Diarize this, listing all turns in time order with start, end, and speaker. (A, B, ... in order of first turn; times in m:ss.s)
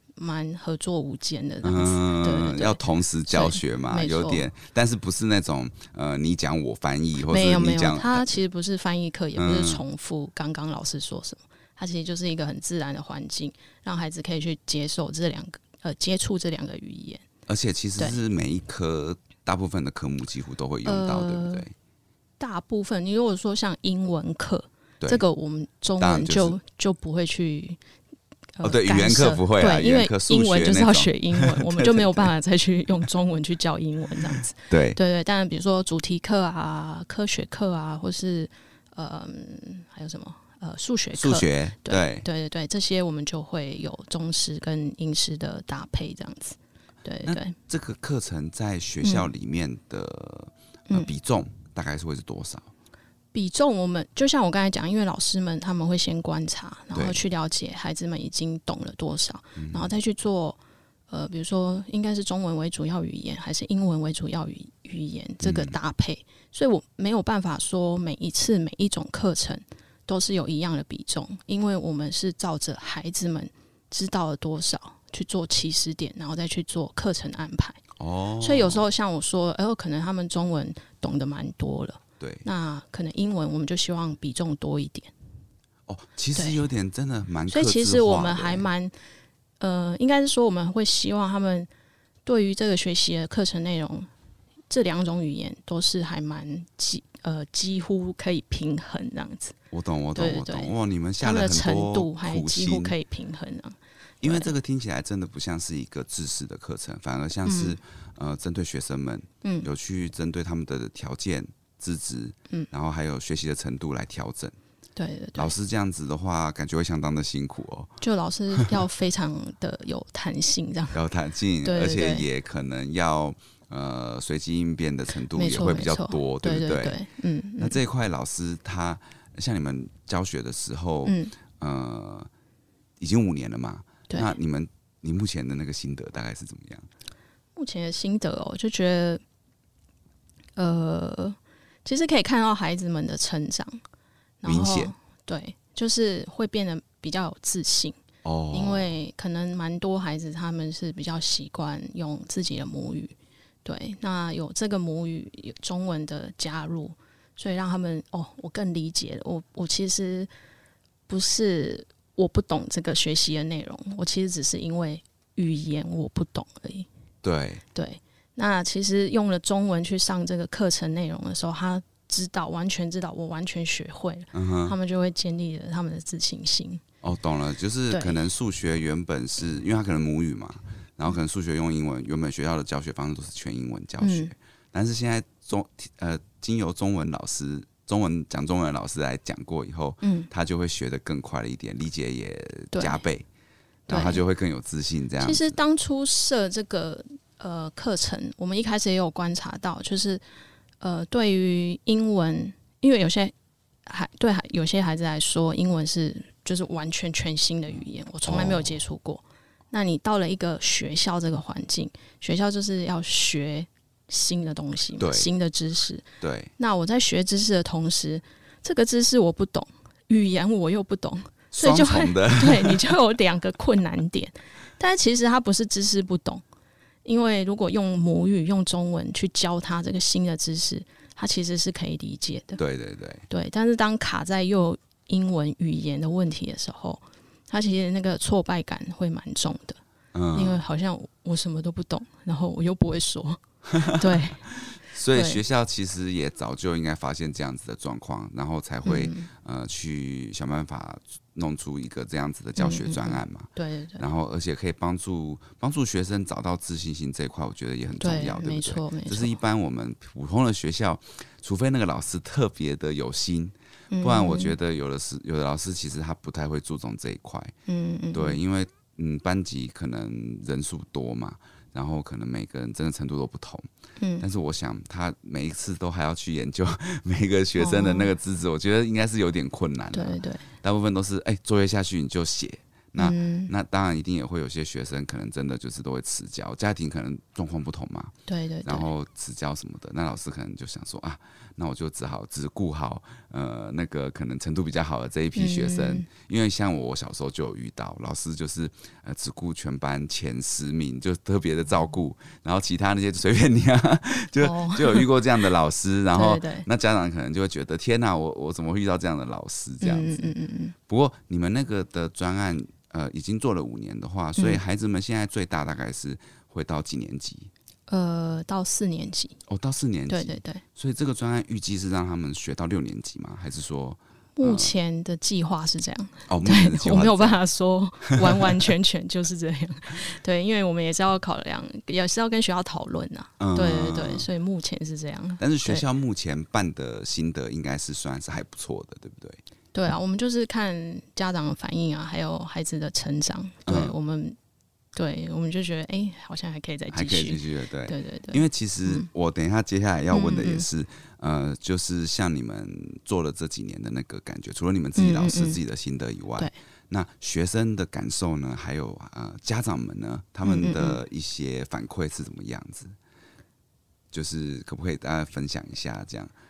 0:00.2-0:04.4 A
0:01.6-0:08.4 B
0:07.3-0:17.2 A
0:09.4-0:09.8 B
0:17.5-0:21.7 B
0:20.8-0:21.6 A
0:22.4-0:27.8 A
0:26.0-0:26.6 B
0:28.6-0:47.6 A
0:28.6-0:32.3 B
0:34.7-0:35.0 B
0:41.2-0:42.3 B
0:47.2-0:52.7 B
0:49.0-0:49.3 A
0:53.3-1:00.6 A
0:56.9-0:57.2 B
0:59.6-0:59.9 B
1:01.1-1:17.8 A
1:05.4-1:05.8 B
1:18.0-1:18.8 B
1:18.4-1:25.1 A
1:22.2-1:22.5 B
1:25.9-1:28.7 B
1:27.5-1:28.9 A
1:29.6-1:31.7 A
1:32.2-1:34.1 A
1:34.7-1:39.6 A
1:39.7-1:43.0 B
1:40.2-1:44.5 A
1:44.2-1:54.6 B
1:47.4-1:47.8 A
1:55.0-1:55.5 A
1:55.4-1:57.9 B
1:58.0-2:01.0 A
2:00.9-2:07.0 B
2:01.6-2:02.3 A
2:05.3-2:07.8 A
2:07.6-2:12.3 B
2:11.0-2:11.3 A
2:13.0-2:16.9 B
2:17.6-2:19.2 A
2:20.6-2:23.8 A
2:24.4-2:28.0 A
2:24.4-2:24.9 B
2:28.2-2:28.9 B
2:28.5-2:40.3 A
2:41.1-2:46.9 A
2:47.2-2:47.6 B
2:47.7-2:56.8 A
2:54.3-2:54.8 B
2:57.0-3:13.3 B
2:57.9-2:58.2 A
3:04.0-3:04.3 A
3:10.0-3:10.3 A
3:12.7-3:13.0 A
3:13.9-3:14.2 A
3:13.9-3:15.6 B
3:15.2-3:20.2 A
3:20.8-3:23.3 A
3:23.9-3:36.1 A
3:28.3-3:28.8 B
3:35.0-3:35.3 B
3:36.2-3:36.5 B
3:36.6-3:46.4 A
3:41.5-3:42.9 B
3:47.0-3:52.6 A
3:52.6-3:53.3 B
3:53.3-3:59.8 A
4:00.1-4:00.6 B
4:00.3-4:04.4 A
4:03.7-4:27.5 B
4:05.1-4:05.4 A
4:08.8-4:09.3 A
4:12.6-4:14.0 A
4:18.0-4:19.4 A
4:23.9-4:24.6 A
4:27.7-4:28.4 A
4:28.1-4:33.7 B
4:34.0-4:34.2 A
4:34.2-4:48.1 B
4:37.6-4:38.1 A
4:39.9-4:40.5 A
4:43.0-4:43.5 A
4:48.3-4:48.9 A
4:48.6-5:10.3 B
4:55.4-4:56.1 A
5:04.4-5:05.1 A
5:06.1-5:06.7 A
5:09.8-5:10.8 A
5:10.9-5:17.5 B
5:17.9-5:19.4 A
5:19.5-5:24.7 B
5:20.1-5:20.6 A
5:24.4-5:35.8 A
5:26.3-5:27.4 B
5:28.2-5:28.7 B
5:33.4-5:34.3 B
5:35.4-5:39.4 B
5:39.7-5:44.4 A
5:43.7-5:43.9 B
5:45.0-5:49.1 A
5:46.9-6:03.0 B
5:50.1-5:50.7 A
5:55.0-5:55.6 A
6:00.4-6:01.0 A
6:04.1-6:06.3 B